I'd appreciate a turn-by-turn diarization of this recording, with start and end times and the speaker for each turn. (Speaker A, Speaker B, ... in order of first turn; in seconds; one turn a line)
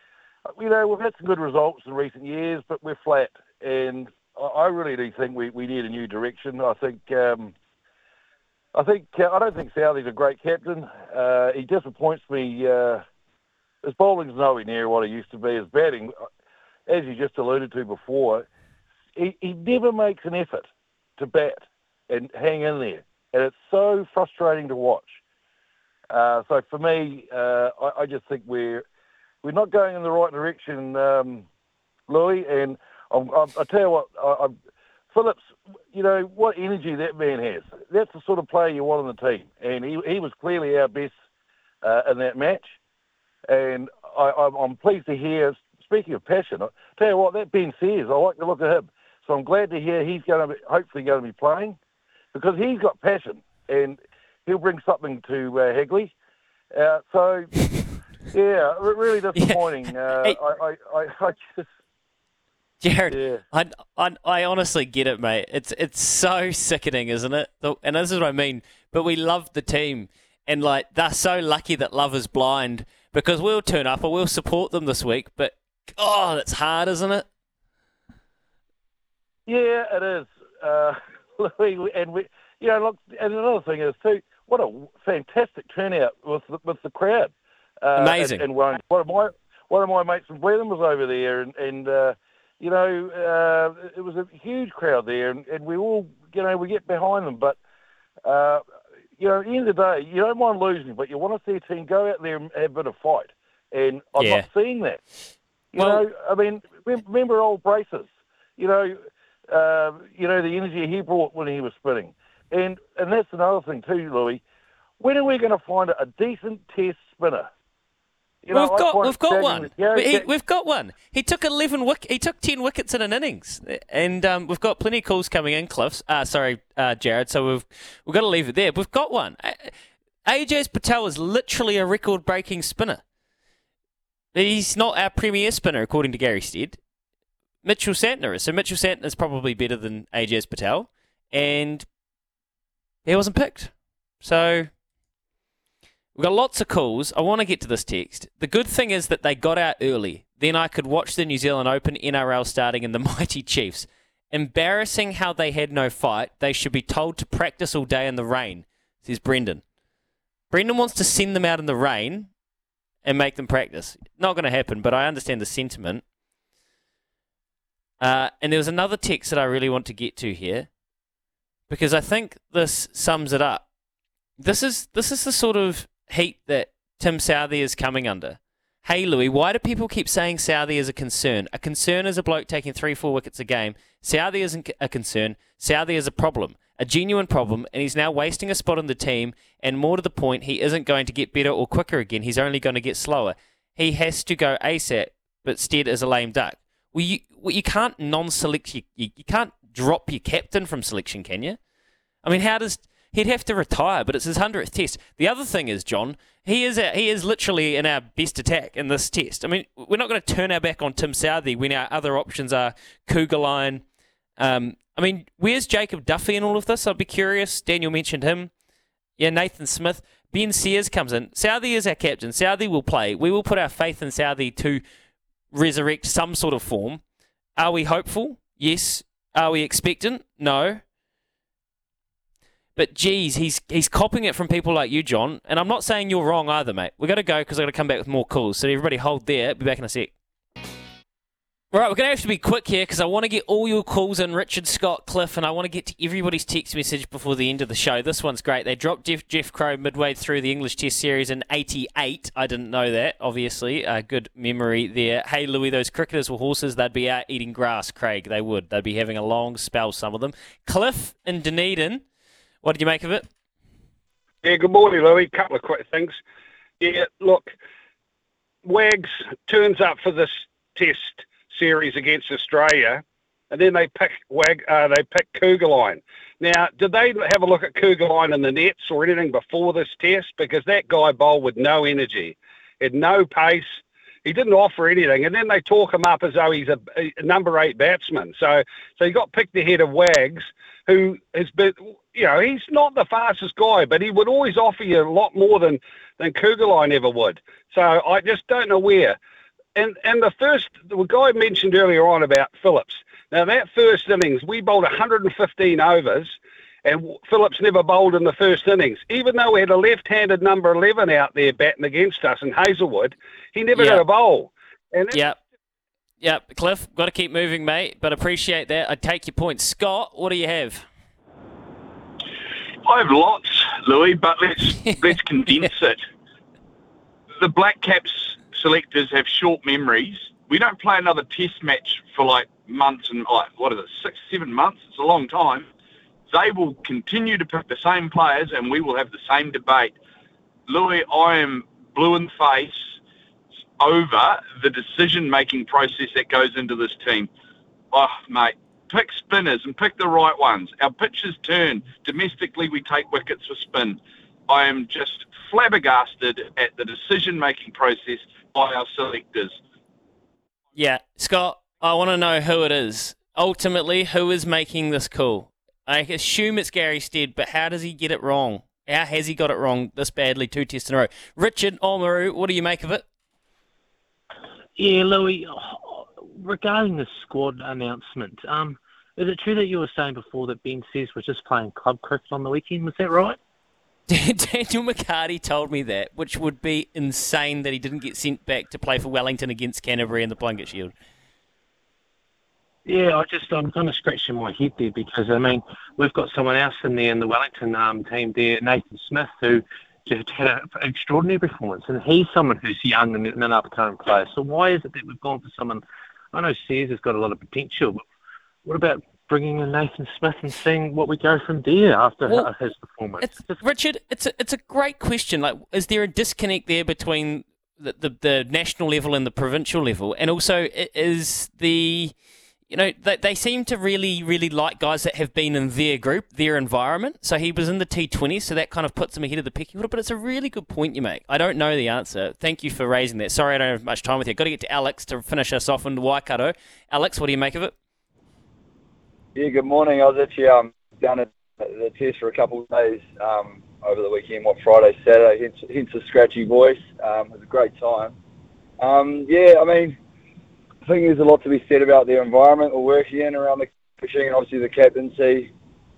Speaker A: 0.6-7.5
Speaker A: 8.7-13.0
Speaker A: 13.8-16.1
Speaker A: 16.9-18.5
Speaker A: 19.1-20.7
Speaker A: 21.2-25.2
Speaker A: 26.1-28.8
Speaker A: 29.4-31.4
Speaker A: 32.1-34.5
Speaker A: 35.1-35.4
Speaker A: 35.9-41.1
Speaker A: 41.8-42.8
Speaker A: 43.5-51.8
Speaker A: 52.3-56.1
Speaker A: 56.7-57.7
Speaker A: 58.3-61.6
Speaker B: 59.3-60.4
Speaker B: 62.8-77.2
Speaker A: 63.1-63.4
Speaker A: 79.5-97.6
Speaker B: 88.0-88.4
Speaker A: 98.2-98.6
Speaker A: 99.2-105.0
Speaker B: 104.2-104.4
Speaker A: 105.7-114.4
Speaker A: 115.0-117.5
Speaker A: 118.4-120.3
Speaker B: 118.5-129.7
Speaker B: 130.2-133.0
Speaker B: 134.3-136.8
Speaker B: 137.6-141.9
Speaker B: 143.1-143.7
Speaker B: 144.2-144.7
Speaker B: 146.1-159.6
Speaker B: 160.5-162.3
Speaker B: 163.0-166.0
Speaker B: 168.0-170.7
Speaker B: 171.7-173.7
Speaker B: 174.4-201.6
Speaker B: 202.2-213.8
Speaker B: 214.4-218.5
Speaker B: 219.2-224.8
Speaker B: 225.5-227.0
Speaker B: 227.6-230.8
Speaker B: 232.8-240.1
Speaker B: 241.7-262.0
Speaker B: 262.6-263.2
Speaker C: 264.4-266.2
Speaker C: 266.8-267.5
Speaker C: 268.6-299.2
Speaker C: 299.8-315.2
Speaker B: 313.8-314.0
Speaker B: 315.1-315.4
Speaker B: 316.2-320.9
Speaker D: 322.8-326.0
Speaker D: 327.4-335.7
Speaker D: 336.3-339.9
Speaker D: 340.7-342.9
Speaker D: 343.8-347.3
Speaker D: 347.9-359.6
Speaker B: 360.8-373.0
Speaker E: 374.8-383.4
Speaker B: 384.1-390.9
Speaker E: 392.9-408.0
Speaker E: 408.6-413.6
Speaker B: 413.2-422.1
Speaker B: 422.7-437.7
Speaker F: 439.4-448.1
Speaker F: 448.8-450.0
Speaker F: 450.9-455.5